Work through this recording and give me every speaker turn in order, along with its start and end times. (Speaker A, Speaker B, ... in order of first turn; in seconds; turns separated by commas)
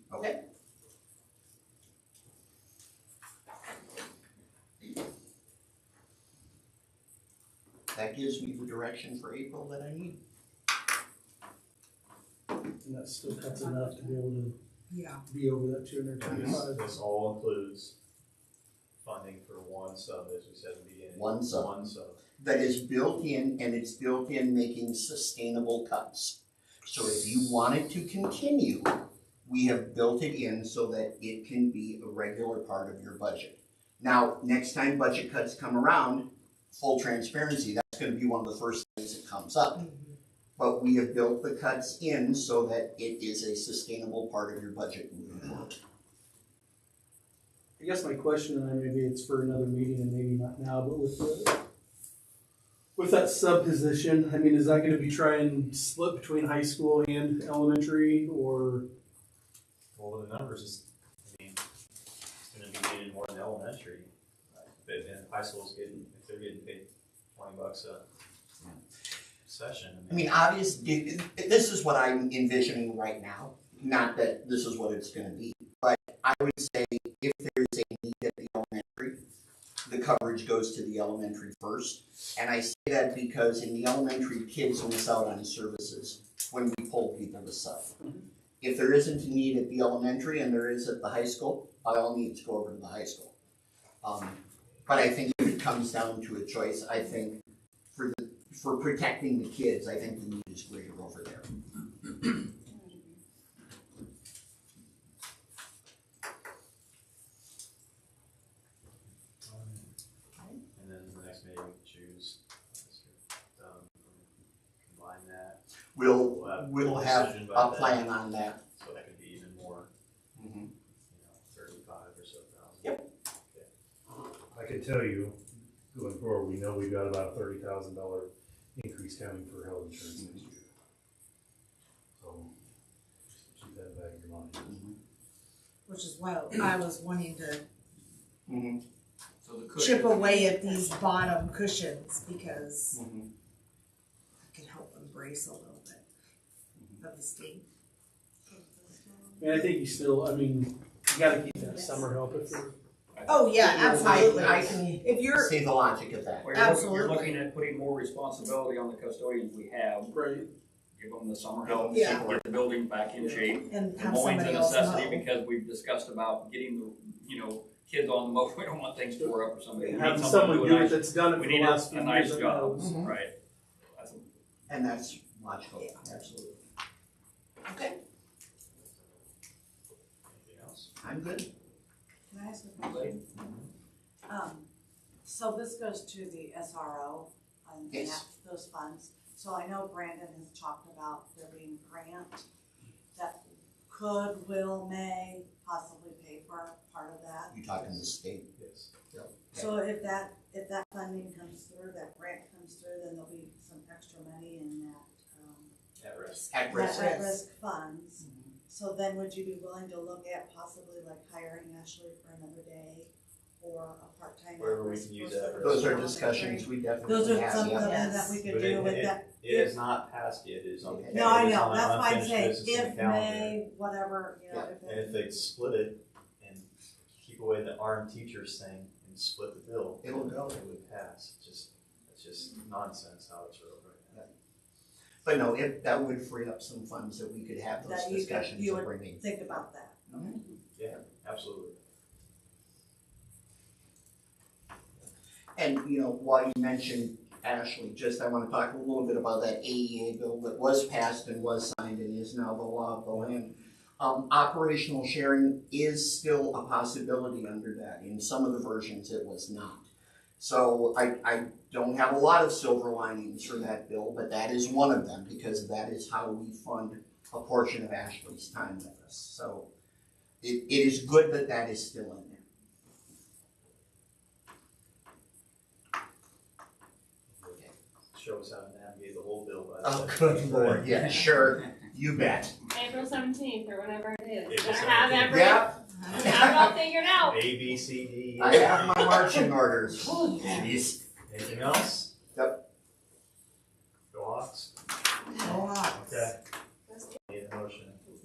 Speaker A: 0.1-0.4, Speaker A: 7.9-10.2, Speaker B: 12.8-14.5, Speaker C: 13.2-14.2, Speaker C: 14.9-15.2, Speaker B: 15.2-16.9, Speaker D: 16.2-17.9, Speaker A: 16.2-16.6, Speaker D: 19.0-22.2, Speaker A: 21.1-21.7, Speaker A: 22.4-39.9, Speaker A: 40.6-45.7, Speaker B: 47.8-51.5, Speaker B: 53.0-58.8, Speaker D: 59.9-61.6, Speaker D: 62.5-68.0, Speaker D: 69.4-70.3, Speaker A: 70.1-79.2, Speaker A: 79.8-87.9, Speaker A: 88.6-93.3, Speaker A: 94.0-97.4, Speaker A: 97.9-101.5, Speaker D: 109.4-109.8, Speaker D: 110.7-114.3, Speaker D: 114.8-118.1, Speaker A: 115.9-118.6, Speaker D: 118.8-119.9, Speaker A: 120.3-120.7, Speaker D: 121.1-123.7, Speaker E: 124.5-125.3, Speaker E: 125.9-130.7, Speaker E: 132.2-132.5, Speaker E: 133.5-134.8, Speaker A: 134.7-134.9, Speaker C: 135.9-137.6, Speaker A: 138.5-138.8, Speaker F: 139.4-140.5, Speaker C: 139.8-143.0, Speaker G: 140.4-140.8, Speaker A: 142.9-143.3, Speaker C: 144.4-146.0, Speaker C: 147.0-147.6, Speaker G: 148.5-149.8, Speaker B: 149.4-152.7, Speaker F: 153.1-154.2, Speaker C: 153.3-155.5, Speaker A: 153.8-156.5, Speaker F: 156.4-173.3, Speaker C: 156.5-157.4, Speaker B: 160.1-160.4, Speaker A: 161.6-162.4, Speaker C: 161.8-162.2, Speaker B: 163.2-163.5, Speaker C: 163.7-165.2, Speaker B: 169.1-172.8, Speaker A: 172.8-173.1, Speaker F: 173.9-174.2, Speaker A: 174.7-176.6, Speaker A: 177.7-177.9, Speaker D: 180.3-180.9, Speaker A: 181.0-181.5, Speaker G: 182.3-183.2, Speaker F: 182.8-183.2, Speaker D: 183.3-183.7, Speaker G: 184.3-184.7, Speaker G: 185.2-192.4, Speaker A: 187.9-188.2, Speaker G: 193.1-197.5, Speaker A: 197.5-198.5, Speaker D: 198.6-198.9, Speaker A: 199.1-199.7, Speaker G: 199.5-205.7, Speaker D: 206.0-206.5, Speaker A: 206.5-207.2, Speaker G: 206.7-219.7, Speaker C: 206.8-207.4, Speaker A: 208.2-208.5, Speaker D: 214.6-216.1, Speaker A: 215.6-218.1, Speaker C: 217.5-218.4, Speaker D: 218.4-223.6, Speaker A: 220.8-221.5, Speaker G: 221.1-225.3, Speaker D: 224.8-234.2, Speaker A: 230.0-230.6, Speaker A: 235.2-239.2, Speaker G: 237.8-240.0, Speaker A: 240.1-240.4, Speaker D: 240.8-241.8, Speaker A: 245.6-259.9, Speaker A: 260.4-269.7, Speaker A: 270.4-272.4, Speaker D: 278.1-281.0, Speaker A: 279.8-282.5, Speaker H: 282.7-287.4, Speaker D: 284.4-285.6, Speaker A: 285.3-286.7, Speaker D: 287.2-289.2, Speaker A: 288.4-291.0, Speaker D: 291.3-292.1, Speaker A: 292.3-292.6, Speaker D: 294.1-294.7, Speaker C: 295.4-296.2, Speaker D: 295.4-296.4, Speaker D: 297.3-298.0